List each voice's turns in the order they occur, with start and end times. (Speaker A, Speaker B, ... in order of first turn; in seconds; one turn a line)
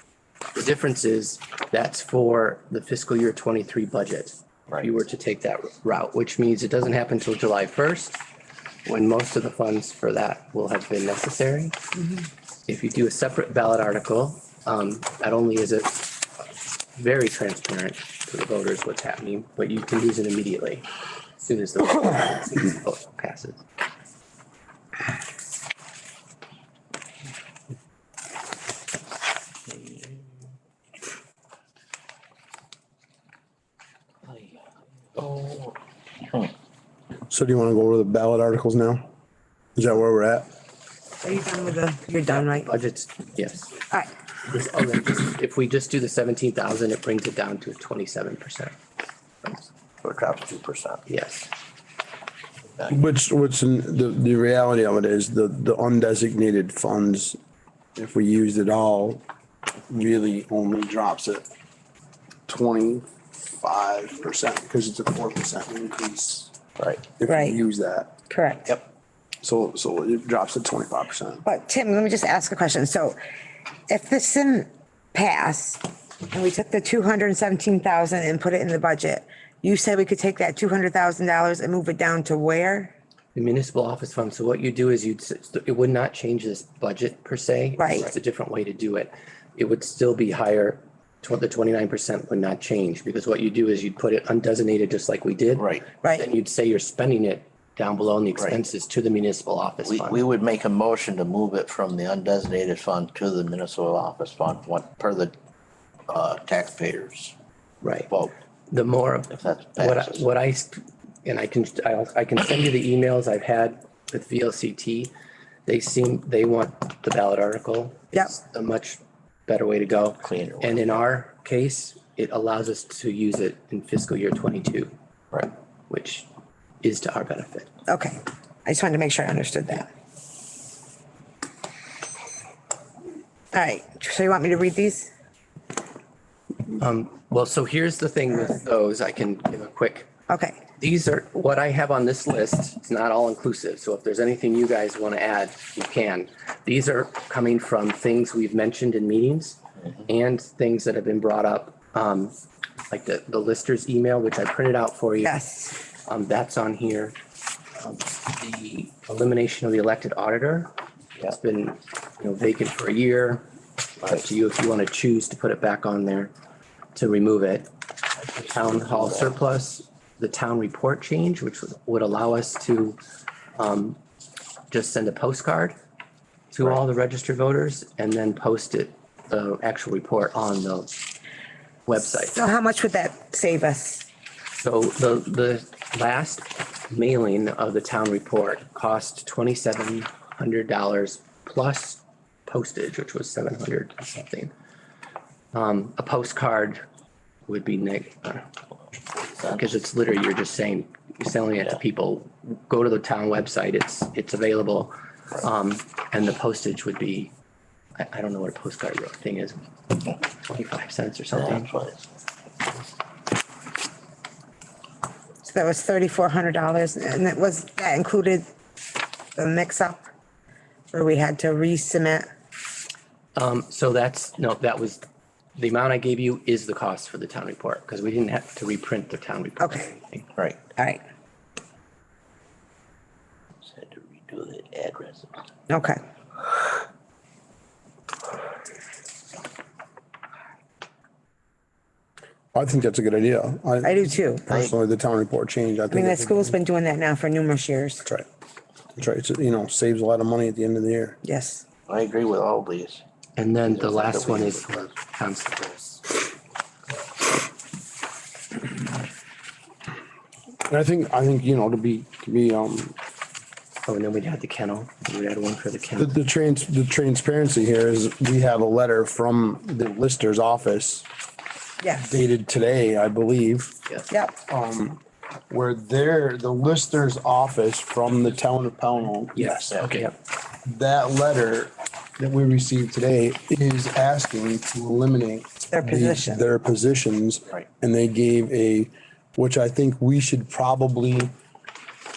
Speaker A: 0.5-8.2
Speaker A: 8.9-11.8
Speaker A: 12.7-16.2
Speaker A: 17.0-20.9
Speaker A: 21.4-23.6
Speaker B: 35.1-35.8
Speaker C: 37.3-39.1
Speaker C: 39.8-40.5
Speaker D: 41.2-42.7
Speaker A: 42.3-43.8
Speaker A: 44.4-48.8
Speaker B: 50.0-51.0
Speaker A: 51.1-51.5
Speaker C: 52.9-57.4
Speaker C: 58.0-59.2
Speaker C: 59.9-61.5
Speaker C: 62.5-68.1
Speaker D: 67.3-67.6
Speaker D: 68.3-68.8
Speaker C: 69.4-71.5
Speaker D: 71.5-73.2
Speaker D: 73.9-82.9
Speaker A: 83.3-100.2
Speaker D: 87.8-88.1
Speaker B: 95.6-95.9
Speaker B: 99.8-105.3
Speaker B: 106.1-107.3
Speaker A: 107.8-108.1
Speaker A: 108.7-115.1
Speaker B: 109.3-110.2
Speaker A: 115.7-124.9
Speaker B: 120.2-121.0
Speaker A: 125.9-126.3
Speaker A: 126.8-127.7
Speaker D: 127.9-129.9
Speaker D: 133.5-135.1
Speaker A: 136.8-140.1
Speaker D: 140.3-140.6
Speaker A: 140.8-152.3
Speaker A: 152.9-155.4
Speaker D: 155.2-155.8
Speaker A: 156.1-157.2
Speaker A: 157.8-163.5
Speaker A: 164.0-166.3
Speaker A: 166.9-167.7
Speaker B: 168.3-169.3
Speaker A: 168.4-173.0
Speaker A: 173.6-174.0
Speaker A: 174.7-175.8
Speaker A: 176.5-180.9
Speaker A: 181.9-182.4
Speaker D: 182.1-184.1
Speaker A: 184.6-194.5
Speaker A: 195.5-196.8
Speaker A: 197.5-198.5
Speaker A: 199.4-207.3
Speaker A: 208.0-211.8
Speaker B: 211.3-212.0
Speaker D: 215.4-218.5
Speaker D: 219.4-220.0
Speaker D: 220.9-222.3
Speaker A: 223.4-225.0
Speaker A: 225.6-230.3
Speaker B: 233.6-235.3
Speaker D: 235.7-236.0
Speaker C: 242.5-246.6
Speaker D: 243.8-244.5
Speaker D: 245.9-248.1
Speaker C: 249.0-251.2
Speaker D: 251.2-251.6
Speaker B: 251.9-253.0
Speaker A: 253.4-256.0
Speaker B: 253.7-254.8
Speaker C: 260.7-263.0
Speaker A: 263.9-266.2
Speaker C: 266.0-271.1
Speaker D: 271.8-272.1
Speaker C: 271.9-273.8
Speaker D: 274.1-274.4
Speaker C: 274.4-280.1
Speaker A: 279.4-280.1
Speaker C: 280.6-291.4
Speaker D: 285.7-286.4